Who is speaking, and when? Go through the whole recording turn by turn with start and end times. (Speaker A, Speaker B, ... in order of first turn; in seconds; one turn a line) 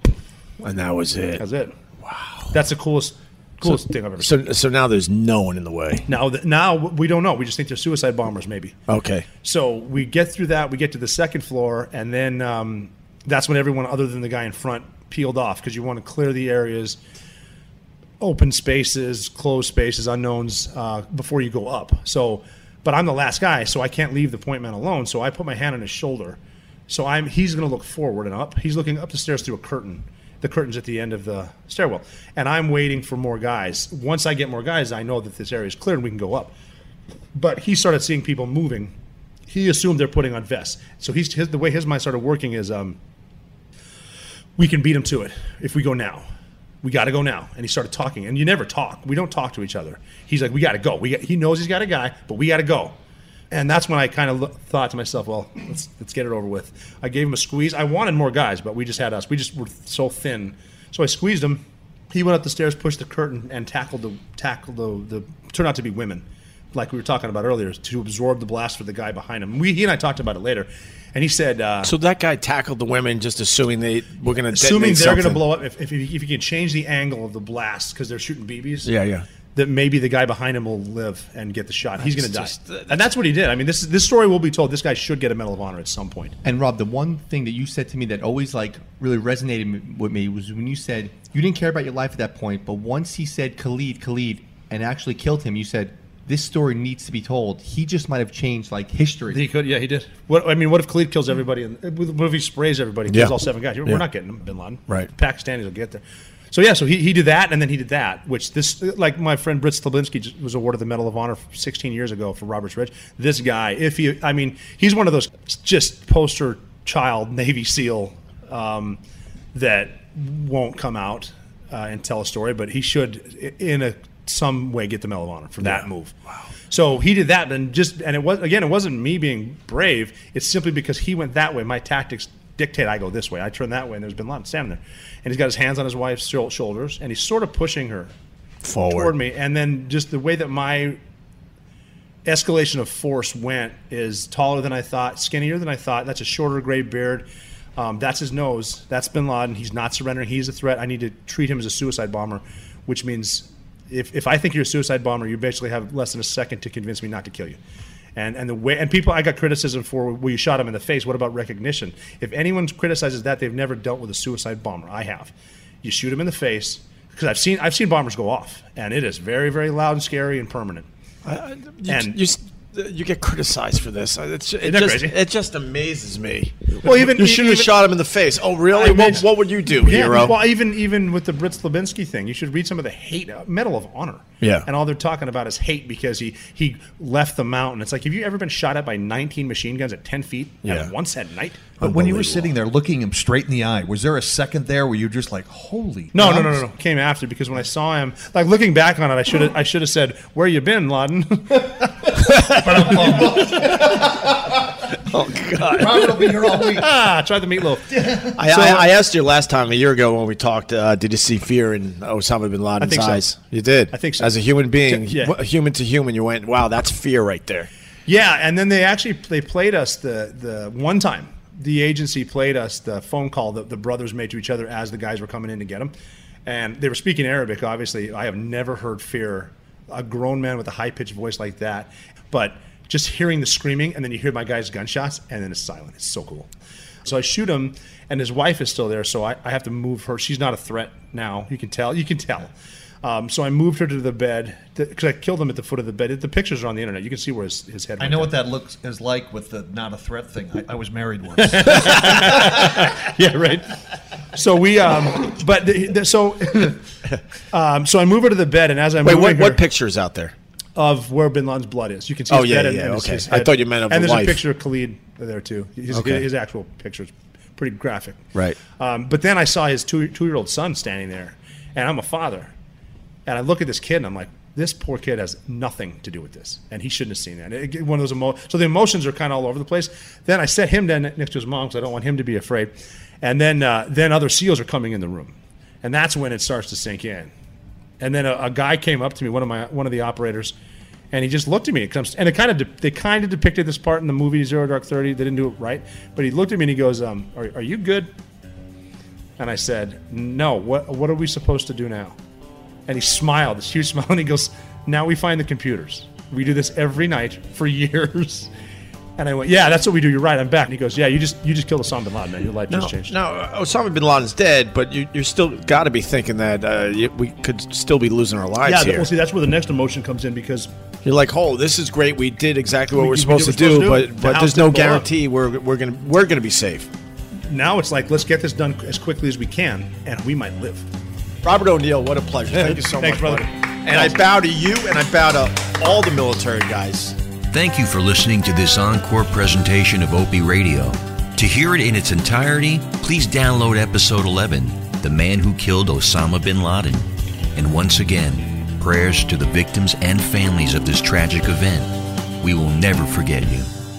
Speaker A: 0.6-1.4
Speaker B: 1.4-1.7
Speaker A: 2.0-2.5
Speaker B: 2.5-4.3
Speaker A: 3.6-6.0
Speaker B: 6.1-8.8
Speaker A: 8.9-9.3
Speaker B: 9.4-17.0
Speaker B: 18.2-36.5
Speaker B: 37.4-38.9
Speaker B: 39.5-43.0
Speaker B: 44.6-46.3
Speaker B: 46.8-53.0
Speaker B: 53.5-71.9
Speaker A: 71.8-75.4
Speaker B: 74.5-78.9
Speaker A: 78.8-79.2
Speaker B: 79.5-86.4
Speaker A: 82.0-83.0
Speaker C: 86.4-99.5
Speaker B: 99.3-119.0
Speaker A: 103.1-104.0
Speaker B: 119.5-126.2
Speaker A: 125.6-125.9
Speaker B: 126.7-138.1
Speaker A: 138.6-139.1
Speaker B: 138.9-141.0
Speaker B: 142.2-147.3
Speaker B: 147.8-157.6
Speaker B: 158.2-170.9
Speaker A: 171.2-180.4
Speaker B: 171.9-172.2
Speaker B: 174.6-175.2
Speaker B: 176.8-177.7
Speaker B: 178.7-191.8
Speaker A: 184.4-184.7
Speaker A: 190.6-190.9
Speaker A: 191.8-192.5
Speaker D: 191.8-196.6
Speaker B: 196.1-203.4
Speaker A: 202.3-204.0
Speaker D: 202.5-204.6
Speaker A: 204.9-206.1
Speaker B: 205.6-208.9
Speaker D: 205.7-206.9
Speaker D: 207.9-208.4
Speaker A: 208.3-217.7
Speaker B: 212.8-213.2
Speaker B: 213.9-215.3
Speaker B: 218.1-225.9
Speaker B: 226.5-236.5
Speaker B: 237.1-248.4
Speaker D: 248.0-252.6
Speaker B: 251.4-253.7
Speaker B: 254.3-256.8
Speaker B: 257.5-259.6
Speaker A: 259.0-260.4
Speaker B: 260.8-272.5
Speaker A: 262.3-264.4
Speaker A: 265.9-266.2
Speaker A: 268.3-268.6
Speaker B: 273.3-287.3
Speaker B: 288.0-290.6
Speaker B: 291.1-298.1
Speaker B: 299.4-302.2
Speaker B: 302.9-308.5
Speaker B: 309.2-313.1
Speaker A: 312.7-319.1
Speaker B: 318.6-320.7
Speaker A: 321.0-326.9
Speaker B: 322.9-325.1
Speaker B: 327.5-330.9
Speaker A: 331.4-337.2
Speaker B: 332.5-334.2
Speaker E: 337.5-353.7